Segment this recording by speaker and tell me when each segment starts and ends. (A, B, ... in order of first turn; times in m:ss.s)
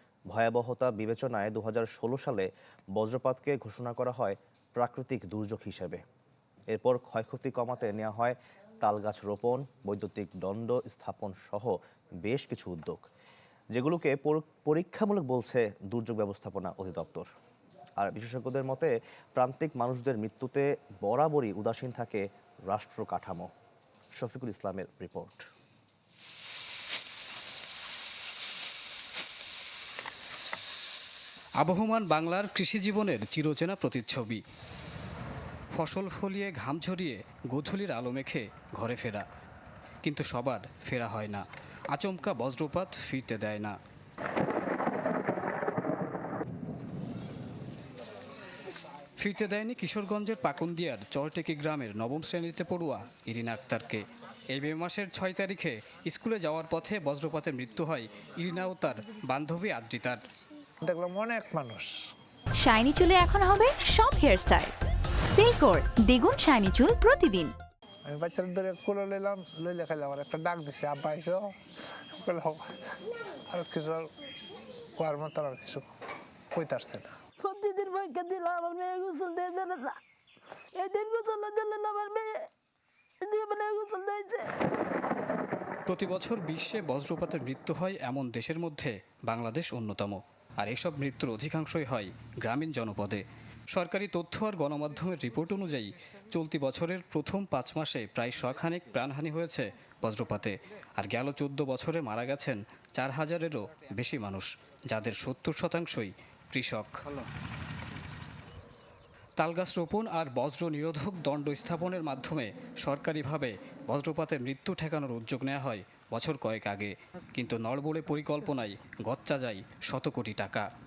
0:00.3-0:06.0 A
0:06.7-0:13.1 A
0:13.7-0:17.3 A
0:18.0-0:23.5 A
0:24.1-0:25.4 A
0:31.6-0:34.4 B
0:35.7-0:39.2 B
0:40.0-0:43.8 B
0:49.2-1:00.2 B
1:00.8-1:01.9 C
1:02.6-1:04.7 D
1:05.3-1:07.5 D
1:08.1-1:11.5 C
1:12.2-1:12.6 C
1:13.5-1:14.1 C
1:15.0-1:15.8 C
1:16.5-1:17.1 C
1:17.4-1:19.9 E
1:20.8-1:22.3 E
1:23.2-1:24.5 E
1:25.9-1:46.9 B
1:49.4-2:00.6 B